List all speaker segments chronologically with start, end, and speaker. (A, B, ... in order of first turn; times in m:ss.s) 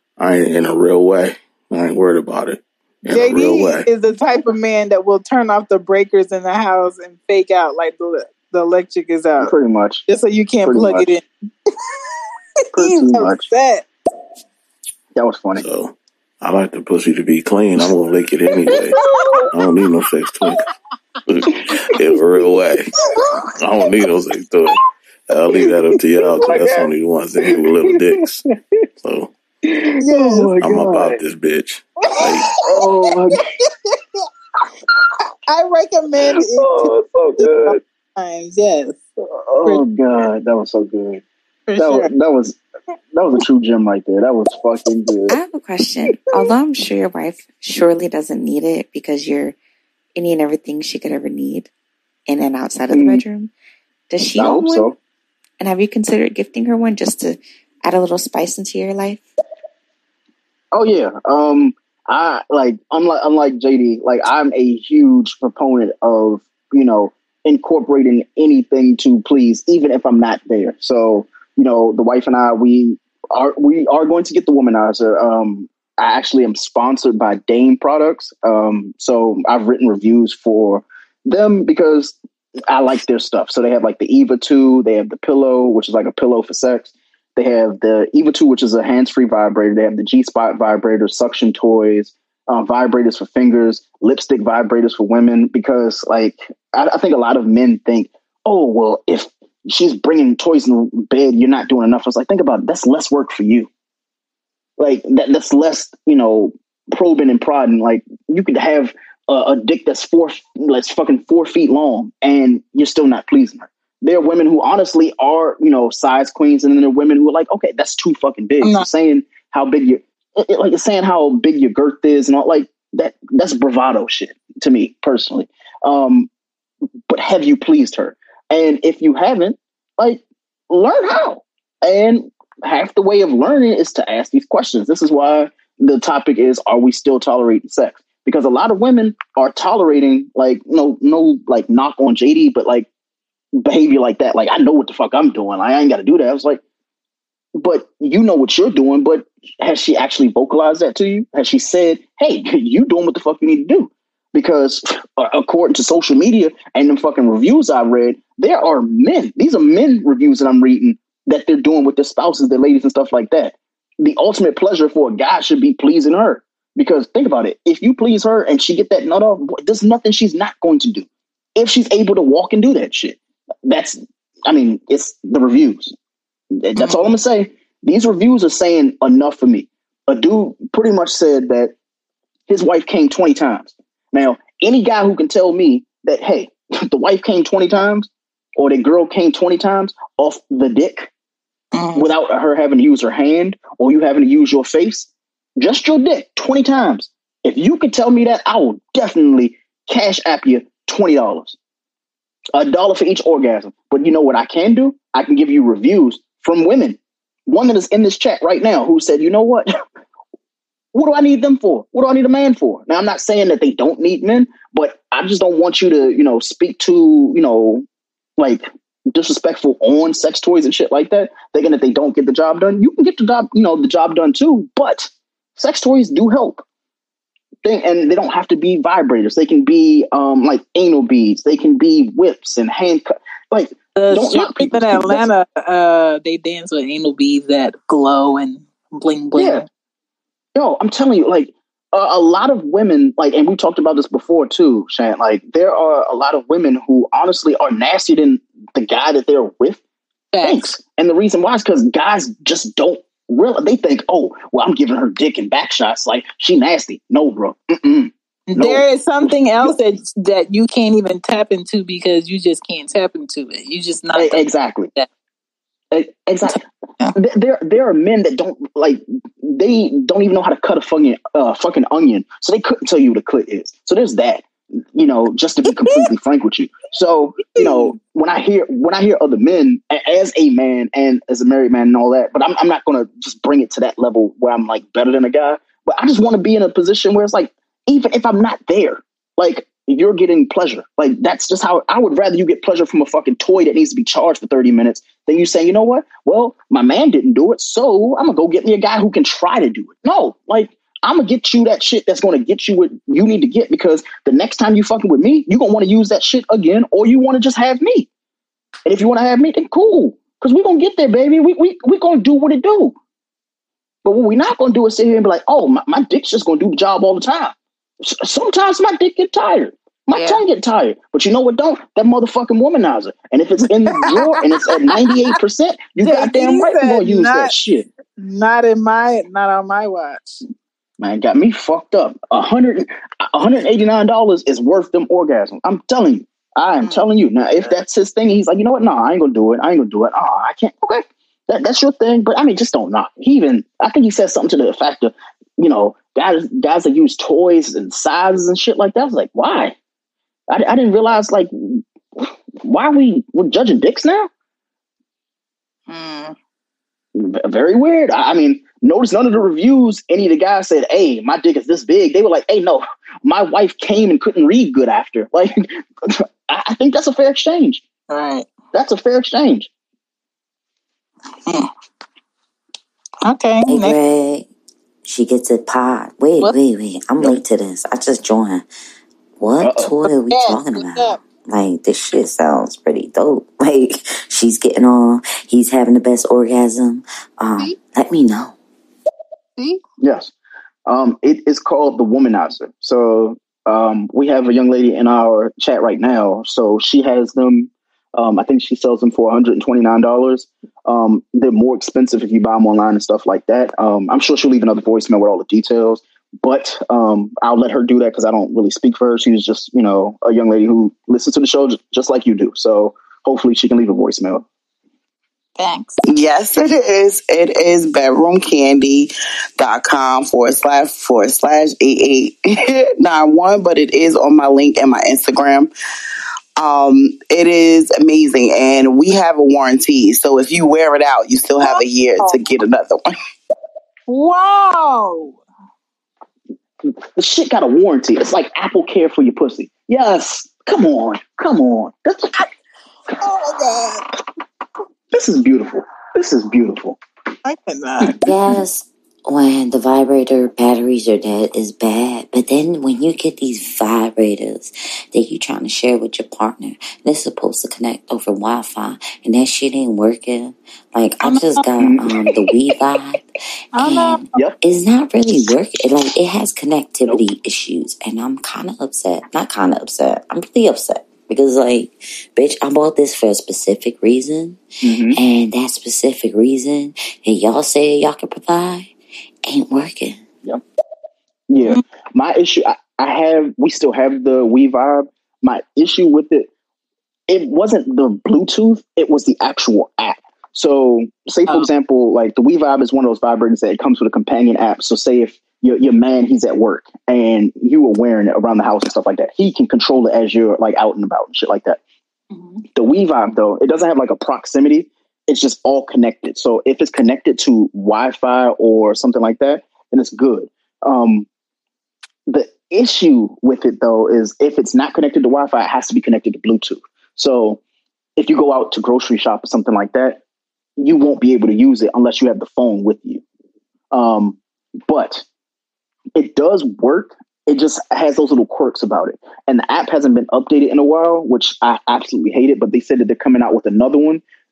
0:00.2-0:03.9 A
0:03.1-0:09.5 B
0:09.4-0:10.0 C
0:10.1-0:11.2 B
0:10.6-0:11.1 C
0:12.7-0:13.5 C
0:12.8-0:13.8 B
0:15.2-0:15.6 C
0:15.6-0:19.0 A
0:18.7-0:19.5 C
0:19.0-0:19.2 B
0:19.5-0:20.6 A
0:21.3-0:22.9 A
0:23.0-0:23.3 B
0:23.6-0:28.4 A
0:26.3-0:26.9 C
0:27.4-0:28.2 C
0:29.0-0:29.3 A
0:30.0-0:30.5 B
0:30.0-0:31.2 C
0:30.5-0:32.6 A
0:32.0-0:32.9 B
0:32.6-0:33.4 C
0:33.6-0:34.0 B
0:35.5-0:39.0 B
0:36.5-0:37.8 C
0:39.2-0:41.2 C
0:41.7-0:42.1 B
0:41.8-0:42.6 C
0:43.1-0:45.4 C
0:45.3-0:49.6 D
0:50.2-0:51.7 D
0:52.3-0:53.5 D
0:52.9-0:53.2 C
0:54.1-0:54.9 D
0:54.3-0:55.0 C
0:55.6-0:59.2 D
1:00.7-1:22.2 C
1:22.7-1:43.7 C
1:44.8-2:06.3 C
2:07.1-2:22.9 C
2:23.5-2:26.6 C
2:27.5-2:55.9 C
2:56.5-3:01.7 C
2:56.8-2:57.2 B
3:02.5-3:11.1 C
3:11.7-3:12.1 B
3:11.9-3:21.6 C
3:22.5-3:29.7 C
3:30.9-3:37.8 C
3:38.4-3:46.6 C
3:47.6-3:55.2 C
3:53.9-3:59.7 B
3:59.3-3:59.6 C
4:00.5-4:09.8 C
4:10.3-4:10.7 B
4:10.4-4:19.8 C
4:18.5-4:25.1 B
4:24.1-4:24.9 C
4:25.9-4:26.6 C
4:26.4-4:27.1 B
4:27.1-5:08.1 C
4:35.6-4:36.0 B
4:37.5-4:37.9 B
5:08.8-5:12.9 C
5:14.0-5:27.9 C
5:20.1-5:20.4 B
5:24.0-5:25.3 B
5:26.0-5:27.5 B
5:28.2-5:30.4 B
5:31.0-5:49.8 C
5:50.5-5:54.3 C
5:55.9-5:56.3 B
5:57.1-6:07.8 C
6:08.1-6:08.5 B
6:08.7-6:09.7 C
6:13.2-6:14.0 B
6:13.6-6:14.5 E
6:15.0-6:18.6 E
6:19.4-6:28.6 E
6:19.6-6:19.9 C
6:20.3-6:21.2 B
6:30.0-6:30.3 C
6:30.8-6:54.4 C
6:55.6-6:56.0 B
6:56.1-7:05.7 F
7:06.5-7:13.1 F
7:11.6-7:12.4 B
7:14.1-7:15.4 B
7:17.2-7:22.4 C
7:23.2-7:24.0 B
7:25.1-7:27.0 C
7:27.4-7:28.1 B
7:28.2-7:43.2 E
7:41.2-7:41.6 B
7:41.8-7:42.5 C
7:43.7-7:44.3 B
7:43.8-7:58.9 E
7:54.8-7:55.2 C
7:59.4-8:00.2 E
8:01.5-8:06.5 C
8:07.3-8:21.8 C
8:22.3-8:22.6 B
8:22.7-8:31.3 C
8:32.3-8:37.6 C
8:38.2-8:40.2 C
8:40.8-8:43.2 C
8:43.9-8:45.2 C
8:46.1-8:54.2 C